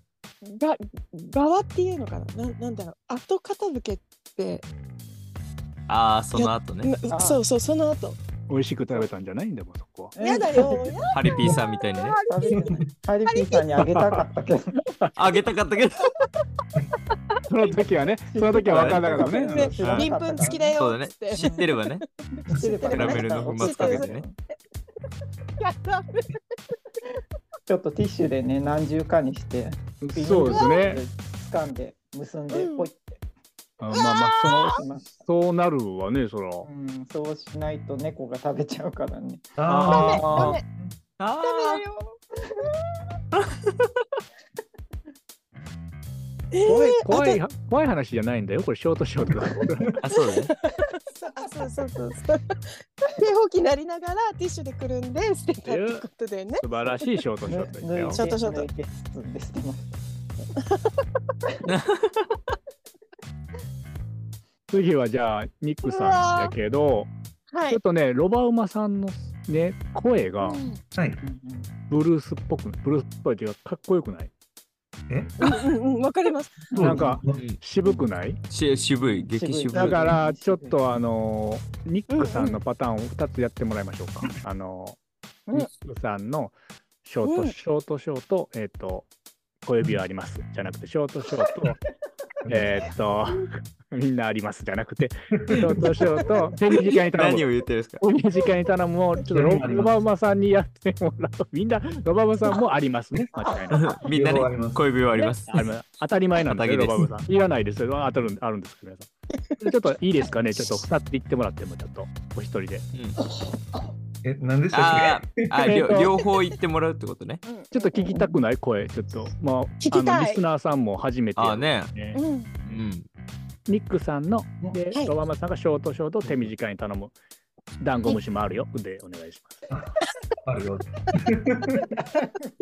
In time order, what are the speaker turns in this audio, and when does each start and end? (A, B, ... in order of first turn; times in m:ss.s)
0:00.4-0:04.6 A
0:05.9-0:06.9 B
0:06.4-0:08.2 A
0:07.1-0:07.4 C
0:08.5-0:10.2 D
0:10.2-0:11.1 C
0:10.2-0:12.8 A
0:11.1-0:12.2 B
0:12.3-0:14.9 C
0:12.6-0:12.8 E
0:13.3-0:13.7 A
0:13.9-0:14.2 D
0:15.2-0:16.1 B
0:17.5-0:19.7 D
0:18.3-0:20.8 C
0:18.7-0:19.2 B
0:19.4-0:24.1 A
0:19.8-0:20.1 B
0:20.8-0:22.0 B
0:21.3-0:21.7 C
0:22.5-0:24.4 C
0:22.9-0:24.2 B
0:25.6-0:26.4 A
0:27.7-0:33.2 C
0:30.0-0:31.0 D
0:30.5-0:30.9 A
0:32.5-0:32.9 A
0:33.8-0:36.7 D
0:33.9-0:34.8 A
0:34.4-0:35.2 C
0:36.6-0:39.6 C
0:39.6-0:40.9 E
0:39.7-0:40.6 D
0:39.9-0:40.6 A
0:41.2-0:41.8 B
0:41.4-0:42.2 A
0:46.5-0:47.4 A
0:46.6-0:49.9 D
0:50.0-0:50.5 B
0:50.2-0:56.6 A
0:55.6-0:56.1 D
0:56.6-0:58.2 D
0:57.5-1:00.0 C
0:58.2-0:58.7 A
1:01.7-1:02.3 B
1:04.7-1:07.1 D
1:05.9-1:06.5 A
1:07.5-1:07.8 A
1:07.7-1:10.6 D
1:10.4-1:10.8 A
1:11.0-1:11.2 E
1:11.2-1:11.7 C
1:11.9-1:14.3 D
1:15.1-1:15.4 E
1:15.4-1:16.7 A
1:16.7-1:17.4 E
1:16.8-1:18.4 D
1:18.5-1:20.1 B
1:19.3-1:20.8 C
1:19.7-1:25.0 D
1:22.1-1:22.6 A
1:25.5-1:29.1 D
1:27.2-1:27.5 A
1:29.7-1:31.8 D
1:32.4-1:32.8 E
1:32.5-1:37.5 D
1:37.1-1:38.0 B
1:38.0-1:43.9 D
1:39.3-1:39.9 E
1:43.7-1:45.7 B
1:44.1-1:44.8 E
1:45.5-1:49.1 D
1:46.4-1:47.1 B
1:49.6-1:52.9 D
1:54.2-1:55.8 E
1:54.7-1:57.4 B
1:55.7-1:56.1 D
1:57.4-1:58.0 A
1:57.7-2:02.2 D
1:59.8-2:00.4 A
2:01.4-2:01.9 B
2:02.2-2:02.5 A
2:02.7-2:03.1 B
2:03.7-2:07.1 D
2:06.2-2:06.5 E
2:07.8-2:09.6 D
2:10.4-2:12.0 E